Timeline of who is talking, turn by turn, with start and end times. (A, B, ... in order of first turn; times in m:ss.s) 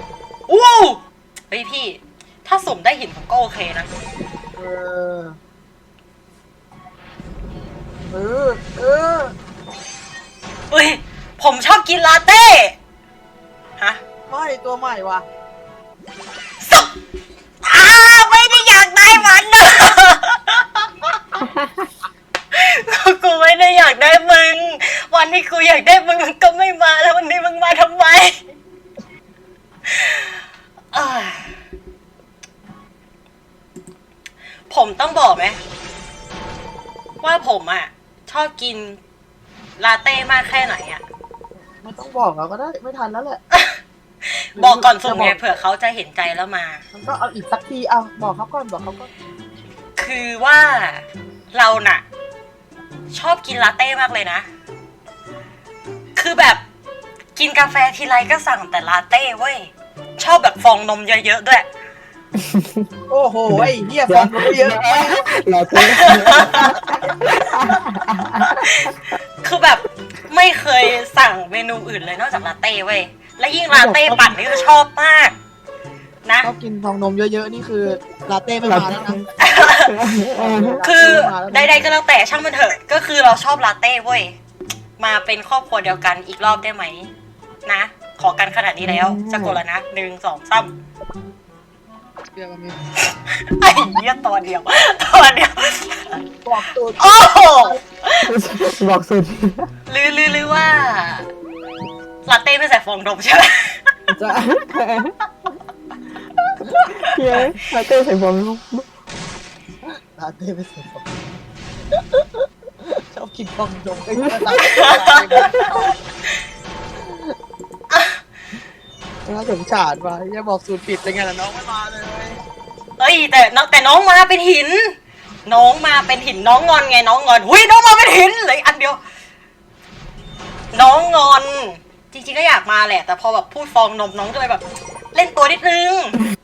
0:00.5-0:03.9 A
0:04.6-0:05.4 B
0:08.1-0:09.3 B
0:10.7-0:12.8 A
0:14.3-0:15.2 B
0:16.6-0:16.9 A
0:17.6-0:21.4 A
0:22.5-0:28.4 A
0:29.9-0:31.6 A
0:34.7-0:35.6 A
0:37.2-0:39.0 A
0:39.8-0:41.0 A
0:41.8-0:43.4 B
0:43.5-0:46.8 A
0:44.5-0:45.5 B
0:46.9-0:49.1 B
0:50.0-0:52.0 A
0:53.1-0:54.5 A
0:56.2-0:56.6 A
0:57.4-1:01.6 A
1:02.4-1:02.8 C
1:03.1-1:05.3 B
1:03.5-1:08.9 C
1:05.8-1:07.8 A
1:08.4-1:15.3 A
1:13.8-1:14.3 B
1:16.2-1:16.5 A
1:16.4-1:19.2 B
1:18.6-1:20.8 C
1:19.4-1:20.2 A
1:20.3-1:21.7 B
1:20.8-1:24.3 A
1:25.0-1:27.1 A
1:27.6-1:30.7 A
1:28.8-1:29.6 C
1:32.3-1:32.8 B
1:33.0-1:36.2 A
1:36.4-1:37.8 B
1:37.0-1:38.3 A
1:38.2-1:39.7 C
1:39.9-1:41.3 A
1:42.2-1:43.9 A
1:44.1-1:45.1 C
1:46.8-1:47.5 A
1:47.0-1:48.9 C
1:49.8-1:51.0 B
1:52.8-1:55.9 B
1:54.2-1:54.6 C
1:54.7-1:55.7 A
1:55.4-1:55.7 C
1:57.0-1:57.3 B
1:57.9-1:58.2 A
1:59.2-2:02.4 B
2:03.0-2:04.9 A
2:05.4-2:09.0 A
2:10.7-2:16.2 A